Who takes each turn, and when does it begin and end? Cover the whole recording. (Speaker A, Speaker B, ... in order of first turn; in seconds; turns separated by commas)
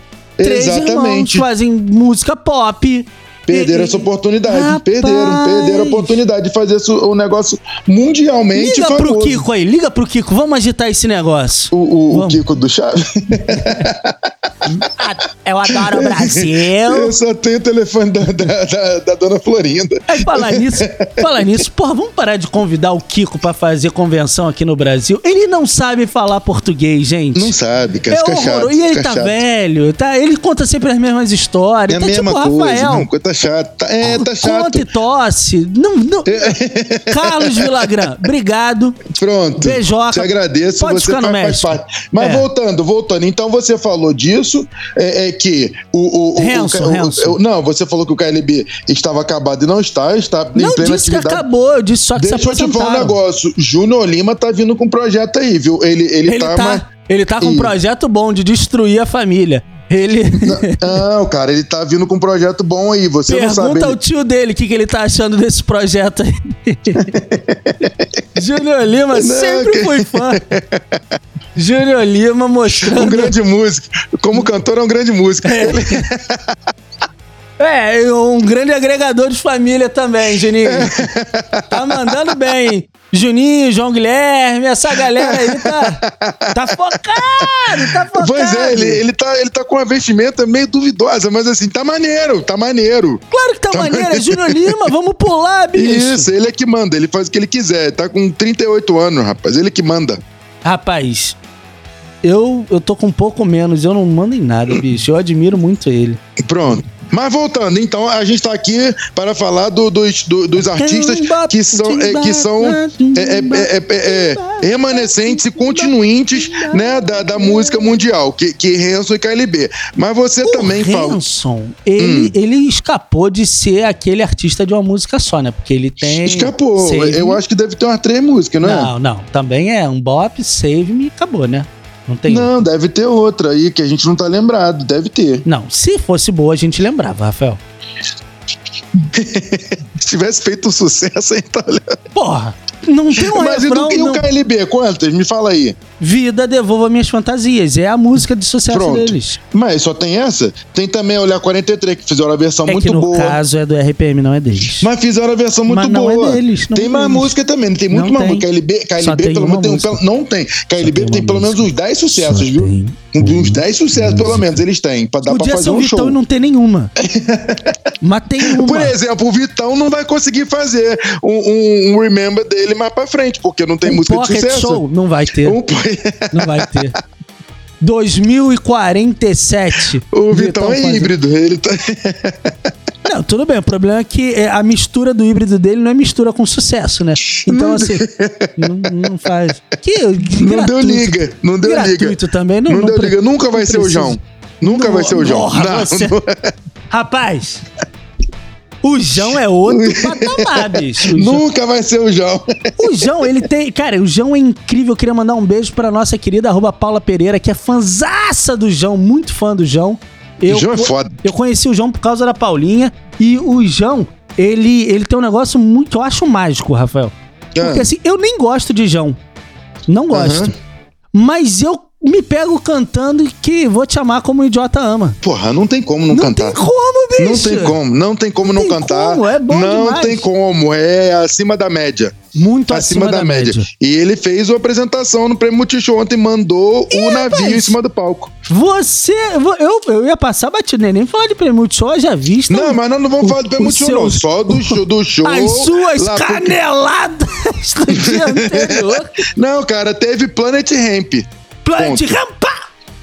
Speaker A: 0.4-1.5, Speaker B: 0.4-6.2, Speaker A: 3.5-9.4, Speaker B: 8.5-12.4, Speaker A: 11.7-14.7, Speaker B: 13.5-13.8, Speaker B: 14.9-17.1, Speaker A: 15.7-21.6, Speaker B: 20.1-27.5, Speaker A: 27.3-29.4, Speaker B: 28.1-33.1, Speaker A: 31.9-34.9, Speaker B: 34.0-36.6, Speaker A: 36.2-38.2, Speaker B: 37.1-39.0, Speaker A: 39.1-51.4, Speaker B: 39.6-42.5, Speaker B: 46.4-47.4, Speaker B: 50.5-53.1, Speaker A: 52.1-56.9, Speaker B: 56.2-61.0, Speaker A: 57.4-57.7, Speaker A: 60.4-64.0, Speaker B: 63.3-67.1, Speaker A: 66.9-68.1, Speaker B: 68.3-70.4, Speaker A: 69.1-71.0, Speaker B: 71.5-73.3, Speaker A: 72.7-76.5, Speaker B: 75.4-76.1, Speaker B: 77.6-81.1, Speaker A: 80.6-82.5, Speaker B: 81.7-86.0, Speaker A: 84.9-94.9, Speaker B: 86.5-89.0, Speaker B: 93.3-96.3, Speaker A: 95.7-100.2, Speaker B: 100.6-101.4, Speaker B: 102.2-106.2, Speaker A: 106.5-121.2, Speaker B: 110.6-118.0, Speaker B: 120.4-127.4, Speaker A: 122.0-122.3, Speaker A: 126.0-128.9, Speaker B: 128.6-132.6, Speaker A: 132.3-135.4, Speaker B: 135.4-137.6, Speaker A: 139.0-142.0, Speaker B: 142.1-144.2, Speaker A: 143.1-145.8, Speaker B: 146.0-149.4, Speaker A: 148.7-153.4, Speaker B: 152.7-154.9, Speaker A: 154.8-166.2, Speaker B: 155.7-157.3, Speaker B: 157.9-158.5, Speaker B: 159.0-160.0, Speaker B: 160.8-164.4, Speaker B: 165.2-166.9, Speaker A: 167.0-167.9, Speaker B: 168.0-168.9, Speaker A: 168.4-174.8, Speaker B: 173.8-175.6, Speaker A: 175.4-176.9, Speaker B: 176.3-176.9, Speaker B: 177.8-181.1, Speaker A: 180.1-182.7, Speaker B: 183.0-188.0, Speaker A: 187.3-189.1, Speaker B: 188.6-196.2, Speaker A: 190.3-196.5, Speaker B: 196.9-197.6, Speaker B: 198.8-201.4, Speaker A: 199.1-203.3, Speaker B: 202.8-219.2, Speaker A: 210.4-211.2, Speaker A: 217.5-217.9, Speaker B: 219.9-220.5, Speaker A: 220.1-220.5, Speaker B: 221.1-225.2, Speaker A: 225.2-226.6, Speaker B: 226.1-227.8, Speaker A: 227.2-232.1, Speaker B: 228.4-230.2, Speaker B: 232.3-233.7, Speaker A: 232.7-238.3, Speaker B: 236.9-237.8, Speaker B: 238.5-249.2, Speaker A: 242.5-246.6, Speaker A: 247.9-252.2, Speaker B: 251.6-252.6